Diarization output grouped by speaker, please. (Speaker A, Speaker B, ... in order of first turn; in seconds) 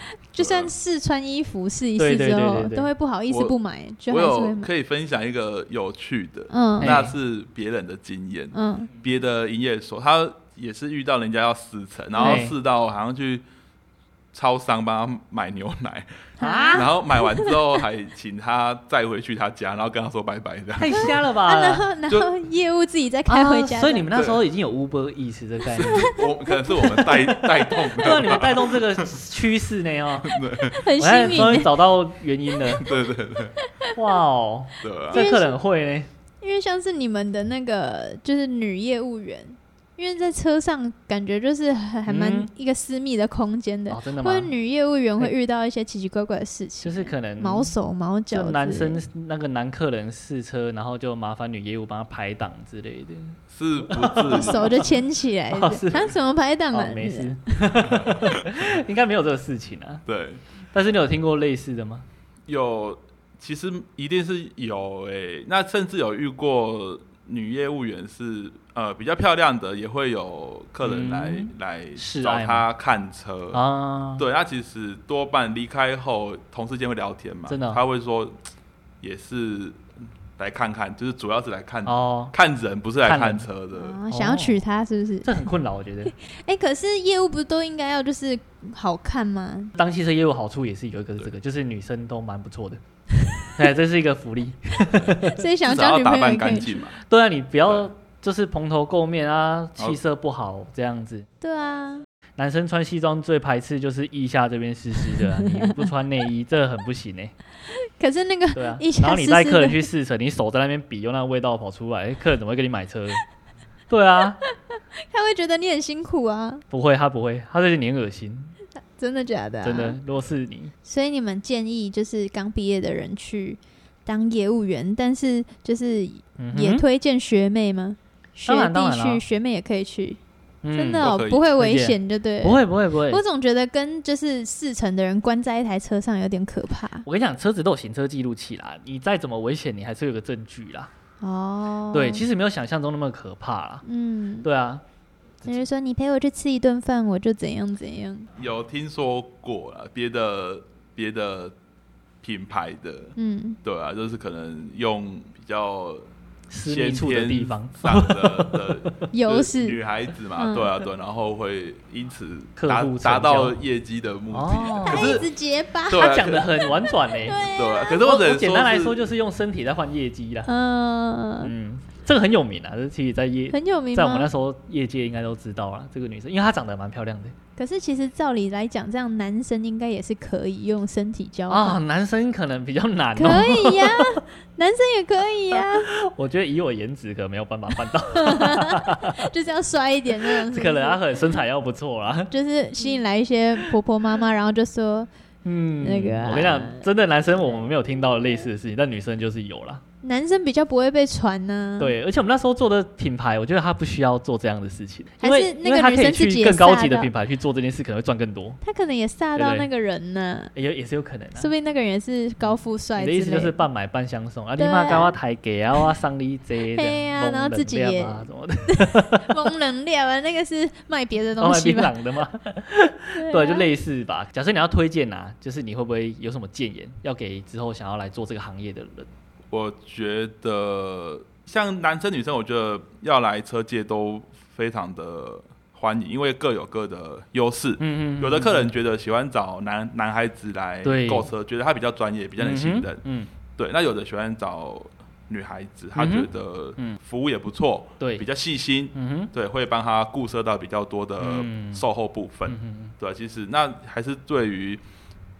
Speaker A: 0.3-4.7, 6.5-7.0, 8.5-8.9, 12.2-12.4, 16.4-17.5, 20.9-24.1, 25.7-28.4, 30.6-31.7, 33.6-34.0, 35.1-35.5, 36.4-49.0, 54.3-57.3, 83.7-85.4, 86.0-89.7, 95.2-96.7, 101.4-102.0, 105.2-105.8, 107.9-109.8, 115.1-116.6, 119.0-120.0, 120.8-130.2, 130.7-137.1, 141.2-142.2, 143.8-144.5, 145.4-148.3, 153.2-153.6, 159.1-159.8, 160.4-160.7, 164.8-168.0, 170.4-171.5, 173.5-174.3, 177.6-181.8, 183.2-185.9, 188.1-191.4, 192.3-195.1, 195.8-196.8, 200.0-201.9, 205.2-207.1, 208.6-210.5, 211.4-213.5, 214.6-215.1, 216.7-221.9, 223.1-223.7
Speaker B: 0.4-0.7, 3.3-3.5, 4.1-13.4, 14.3-21.2, 24.1-24.4, 25.8-29.2, 30.2-30.8, 32.8-33.6, 34.8-35.2, 53.5-54.9, 57.9-58.5, 60.0-60.4, 62.5-73.6, 74.2-78.3, 79.0-79.8, 80.4-84.0, 95.7-97.0, 131.0-131.5, 148.3-151.5, 152.2-156.1, 156.6-165.3, 165.9-166.6, 167.4-169.1, 229.5-243.0, 243.6-254.8
Speaker C: 2.0-2.9, 6.8-7.1, 12.2-12.5, 16.4-16.9, 20.8-21.8, 23.3-26.1, 28.0-30.4, 31.0-32.9, 33.9-36.1, 42.1-42.5, 43.9-44.5, 46.8-47.7, 48.3-56.1, 56.7-60.0, 60.7-62.0, 70.8-72.7, 73.5-74.2, 77.5-77.8, 81.8-82.3, 83.0-83.5, 84.1-84.6, 85.2-86.1, 89.7-92.8, 93.5-95.4, 97.1-101.2, 102.4-107.3, 108.5-113.2, 113.9-114.4, 116.7-118.5, 119.6-120.7, 126.4-126.8, 128.5-129.2, 130.6-133.2, 137.1-140.9, 141.9-143.8, 144.4-144.8, 156.5-158.9, 162.6-163.6, 164.3-165.2, 165.9-167.4, 168.0-170.5, 171.4-177.3, 181.5-184.2, 185.5-189.2, 190.2-192.3, 195.4-199.8, 201.8-208.6, 209.3-209.7, 210.5-211.5, 213.0-219.5, 221.4-229.1, 237.8-238.7, 240.8-241.3, 242.4-243.3, 245.9-247.0, 248.0-248.2, 248.9-249.3, 251.2-251.8, 252.4-252.9